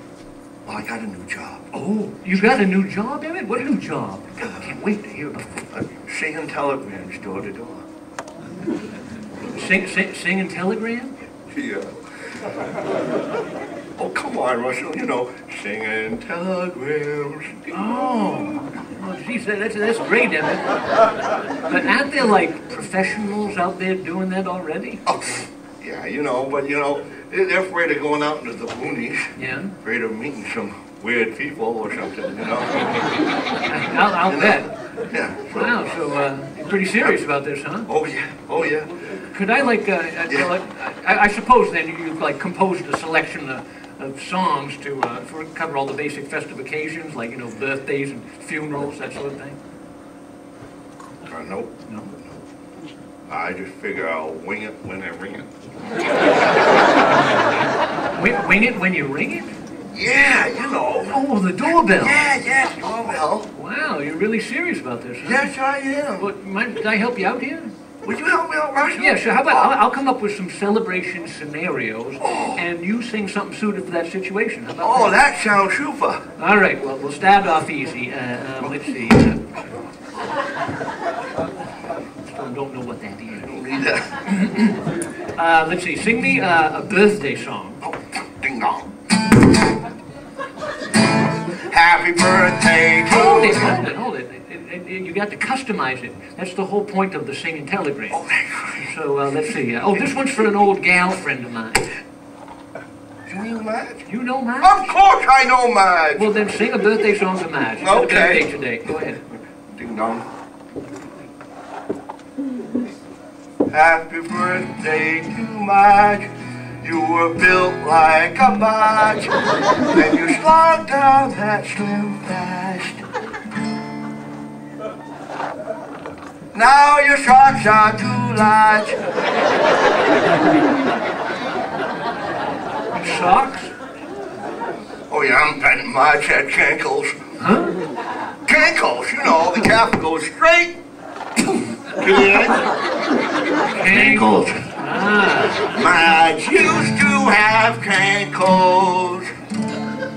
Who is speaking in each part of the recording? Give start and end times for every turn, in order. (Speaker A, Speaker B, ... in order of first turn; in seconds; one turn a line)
Speaker A: 0.6-1.7
Speaker B: 1.7-5.7
Speaker A: 4.4-4.8
Speaker A: 5.7-7.8
Speaker B: 9.3-11.1
Speaker A: 11.5-11.9
Speaker A: 14.0-18.2
Speaker B: 17.7-21.0
Speaker B: 21.6-25.0
Speaker A: 25.1-33.0
Speaker B: 29.4-29.8
Speaker B: 33.7-34.7
Speaker A: 34.3-36.0
Speaker B: 35.5-37.9
Speaker A: 37.9-38.9
Speaker B: 39.0-49.6
Speaker A: 51.2-52.4
Speaker B: 51.9-52.1
Speaker A: 53.3-55.5
Speaker B: 58.1-59.5
Speaker A: 59.9-61.2
Speaker B: 61.1-62.2
Speaker A: 61.8-63.5
Speaker B: 63.5-65.5
Speaker A: 65.2-66.3
Speaker B: 66.2-67.7
Speaker A: 68.0-69.7
Speaker B: 68.9-75.2
Speaker A: 72.2-72.6
Speaker A: 74.8-76.2
Speaker B: 76.4-79.5
Speaker B: 82.2-83.5
Speaker A: 83.4-84.1
Speaker B: 84.2-87.8
Speaker A: 87.8-88.9
Speaker A: 91.5-93.8
Speaker B: 93.0-98.2
Speaker A: 98.1-99.0
Speaker B: 98.8-101.9
Speaker A: 103.2-104.0
Speaker B: 104.1-104.9
Speaker A: 104.6-106.5
Speaker B: 106.1-109.2
Speaker A: 107.8-108.5
Speaker A: 109.5-110.2
Speaker A: 113.7-116.3
Speaker A: 116.8-119.4
Speaker A: 119.9-123.0
Speaker A: 126.5-129.0
Speaker B: 133.0-133.7
Speaker A: 135.1-137.1
Speaker B: 137.4-137.7
Speaker A: 138.4-140.8
Speaker A: 141.9-142.7
Speaker B: 143.7-145.8
Speaker A: 143.8-144.6
Speaker A: 145.7-149.3